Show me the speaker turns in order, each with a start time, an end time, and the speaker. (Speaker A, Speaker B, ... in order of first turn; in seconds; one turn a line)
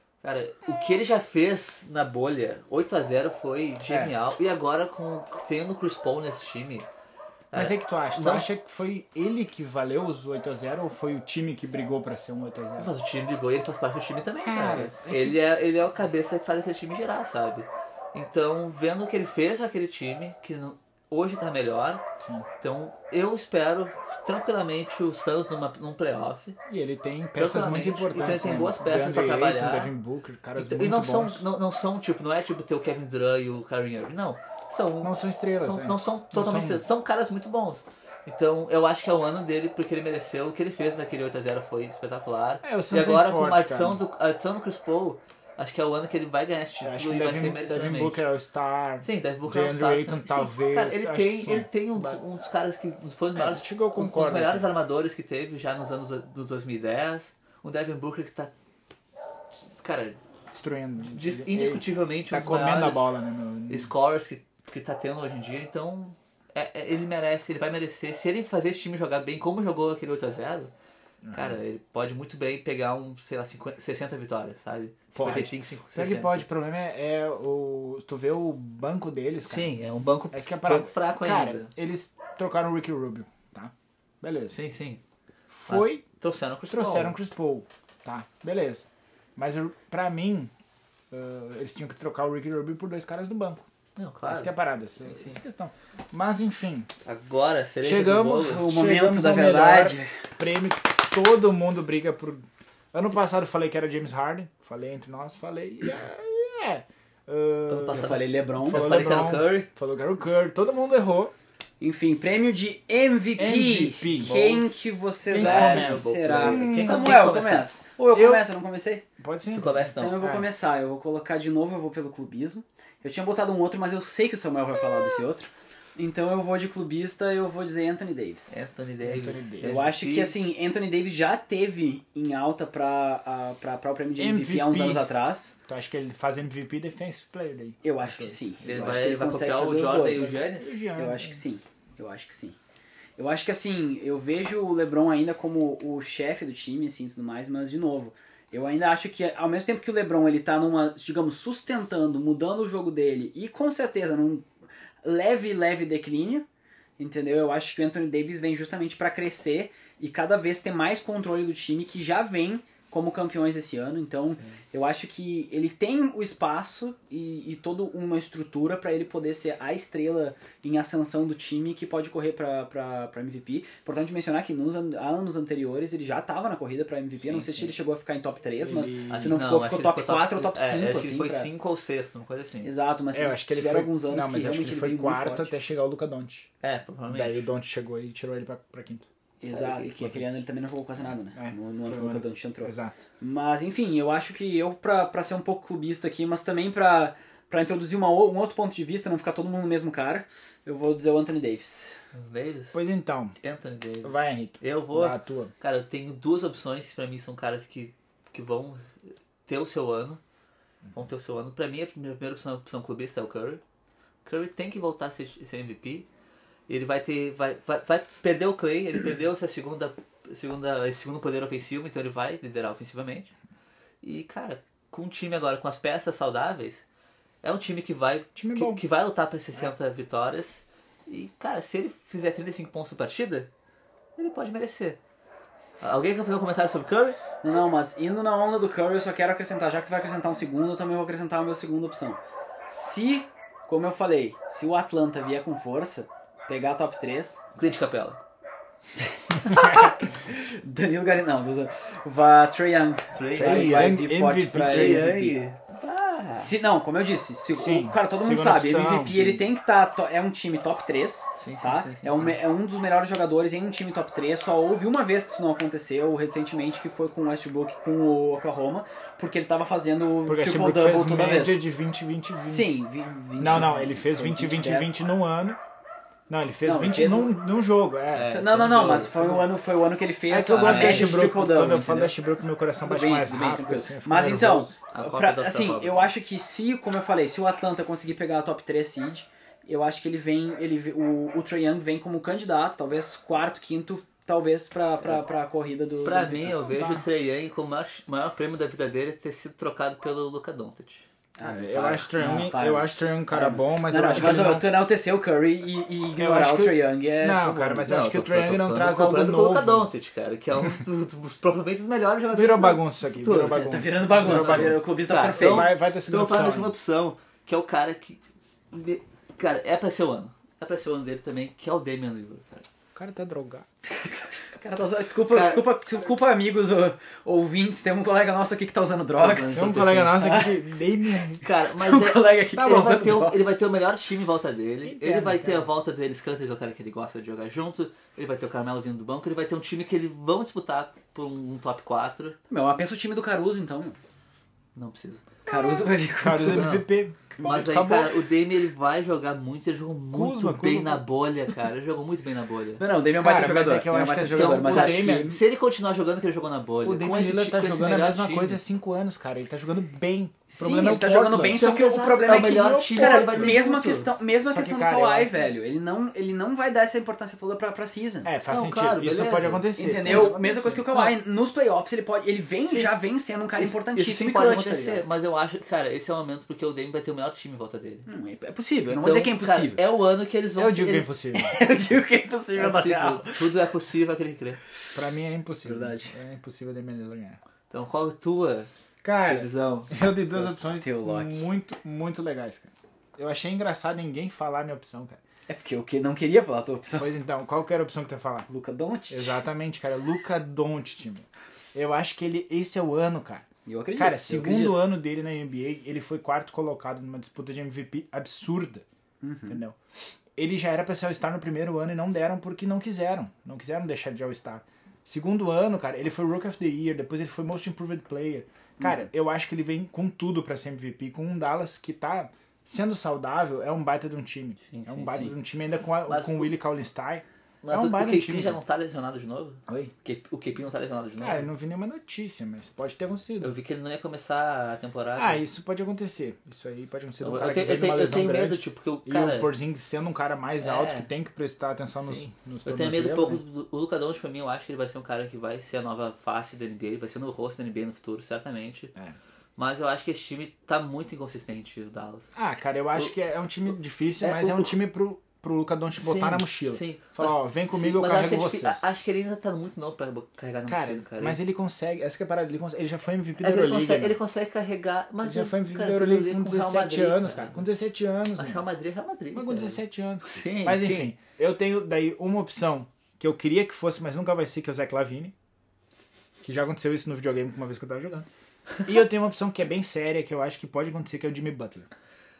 Speaker A: 0.2-6.9
Speaker B: 3.9-4.1
Speaker A: 7.5-8.5
Speaker B: 7.5-12.9
Speaker A: 12.8-22.0
Speaker B: 14.4-15.4
Speaker B: 22.2-22.5
Speaker A: 22.6-26.6
Speaker B: 26.6-31.4
Speaker A: 27.4-29.9
Speaker A: 30.6-48.2
Speaker B: 35.0-36.8
Speaker B: 42.6-44.0
Speaker B: 46.8-52.2
Speaker A: 49.0-58.5
Speaker B: 53.3-54.7
Speaker A: 59.8-60.2
Speaker B: 60.5-63.9
Speaker A: 61.1-63.1
Speaker A: 63.7-70.7
Speaker B: 71.2-71.6
Speaker A: 71.3-76.4
Speaker B: 75.1-79.7
Speaker A: 79.5-81.7
Speaker B: 80.3-84.6
Speaker A: 84.5-85.0
Speaker B: 85.5-86.0
Speaker A: 85.7-87.1
Speaker B: 86.7-88.8
Speaker B: 89.3-90.5
Speaker B: 91.1-93.6
Speaker A: 94.0-94.5
Speaker B: 94.3-96.9
Speaker A: 95.0-95.4
Speaker A: 97.0-98.6
Speaker B: 97.8-111.3
Speaker C: 98.4-100.2
Speaker A: 107.7-109.7
Speaker C: 107.9-108.9
Speaker C: 111.8-119.0
Speaker B: 113.4-114.5
Speaker A: 114.2-114.7
Speaker A: 115.3-117.7
Speaker B: 115.3-117.2
Speaker B: 118.1-118.5
Speaker B: 119.2-120.5
Speaker A: 119.5-120.2
Speaker C: 120.0-128.6
Speaker A: 128.5-130.3
Speaker B: 129.0-129.8
Speaker C: 129.6-135.6
Speaker B: 134.2-135.1
Speaker B: 135.7-138.6
Speaker C: 137.8-142.6
Speaker A: 138.6-140.8
Speaker B: 140.2-141.4
Speaker C: 143.2-154.5
Speaker C: 155.0-156.4
Speaker C: 157.0-181.5
Speaker B: 177.3-177.7
Speaker B: 178.6-179.4
Speaker A: 179.1-182.7
Speaker C: 182.6-185.5
Speaker B: 183.1-186.5
Speaker A: 186.6-187.4
Speaker B: 187.1-189.0
Speaker C: 189.4-202.0
Speaker B: 190.0-190.3
Speaker B: 191.3-193.0
Speaker A: 202.1-202.8
Speaker B: 202.7-203.3
Speaker A: 203.4-210.2
Speaker B: 204.0-205.5
Speaker A: 210.9-213.6
Speaker A: 214.2-216.1
Speaker A: 216.7-223.3
Speaker A: 224.0-226.8
Speaker A: 227.4-233.5
Speaker B: 228.3-228.8
Speaker A: 234.2-235.0
Speaker A: 235.8-237.2
Speaker C: 237.4-247.4
Speaker A: 247.6-248.2
Speaker C: 249.0-255.4
Speaker A: 253.1-253.9
Speaker B: 253.3-255.2
Speaker A: 254.6-256.5
Speaker C: 256.3-271.6
Speaker B: 257.5-259.4
Speaker A: 261.3-262.4
Speaker B: 270.2-272.7
Speaker C: 272.4-275.0
Speaker B: 273.4-275.6
Speaker B: 276.3-278.8
Speaker C: 276.6-277.4
Speaker A: 278.1-279.5
Speaker C: 278.3-282.1
Speaker B: 280.3-284.8
Speaker A: 280.5-281.1
Speaker C: 282.8-296.9
Speaker A: 284.9-286.1
Speaker A: 296.0-301.1
Speaker C: 301.4-307.9
Speaker B: 301.4-304.8
Speaker B: 306.1-309.9
Speaker A: 307.9-318.2
Speaker B: 312.3-316.7
Speaker C: 313.6-315.7
Speaker A: 318.7-322.7
Speaker B: 322.9-323.6
Speaker C: 324.5-330.6
Speaker A: 325.3-325.6
Speaker A: 329.2-330.4
Speaker B: 329.5-331.4
Speaker C: 331.1-333.4
Speaker A: 331.4-342.4
Speaker B: 334.8-335.7
Speaker C: 342.5-344.0
Speaker A: 344.7-345.3
Speaker C: 345.4-346.8
Speaker B: 346.2-348.1
Speaker A: 346.5-346.8
Speaker C: 347.4-347.8
Speaker A: 347.4-352.8
Speaker B: 350.1-351.1
Speaker C: 352.8-355.4
Speaker B: 353.2-355.4
Speaker A: 354.3-358.6
Speaker B: 356.8-361.6
Speaker C: 360.5-368.3
Speaker A: 361.5-364.1
Speaker B: 362.3-363.6
Speaker B: 364.4-365.5
Speaker B: 368.2-371.1
Speaker A: 368.5-370.4
Speaker C: 369.8-375.0
Speaker A: 373.6-378.1
Speaker C: 378.1-379.8
Speaker A: 378.9-381.1
Speaker B: 380.6-381.6
Speaker C: 381.3-383.5
Speaker A: 382.6-384.6
Speaker B: 384.9-387.4
Speaker C: 385.6-386.1
Speaker A: 387.7-388.7
Speaker B: 389.0-395.2
Speaker A: 389.2-389.9
Speaker C: 390.7-391.4
Speaker C: 395.5-397.1
Speaker B: 397.0-398.5
Speaker C: 398.5-399.4
Speaker B: 399.1-408.9
Speaker C: 403.6-404.9
Speaker C: 409.2-409.6
Speaker B: 409.5-409.8
Speaker B: 410.4-428.6
Speaker C: 418.8-419.1
Speaker A: 424.7-425.3
Speaker A: 426.0-426.5
Speaker A: 427.6-431.5
Speaker B: 429.7-429.9
Speaker B: 431.2-433.5
Speaker A: 433.4-435.4
Speaker B: 435.2-443.4
Speaker A: 437.2-439.5
Speaker A: 440.6-441.1
Speaker A: 442.0-448.9
Speaker A: 449.6-452.3
Speaker B: 452.3-458.8
Speaker A: 454.2-454.8
Speaker A: 456.0-461.4
Speaker B: 460.7-464.2
Speaker A: 463.4-467.7
Speaker B: 465.2-468.6
Speaker A: 468.4-471.1
Speaker B: 469.3-475.3
Speaker B: 476.4-478.3
Speaker B: 478.9-481.9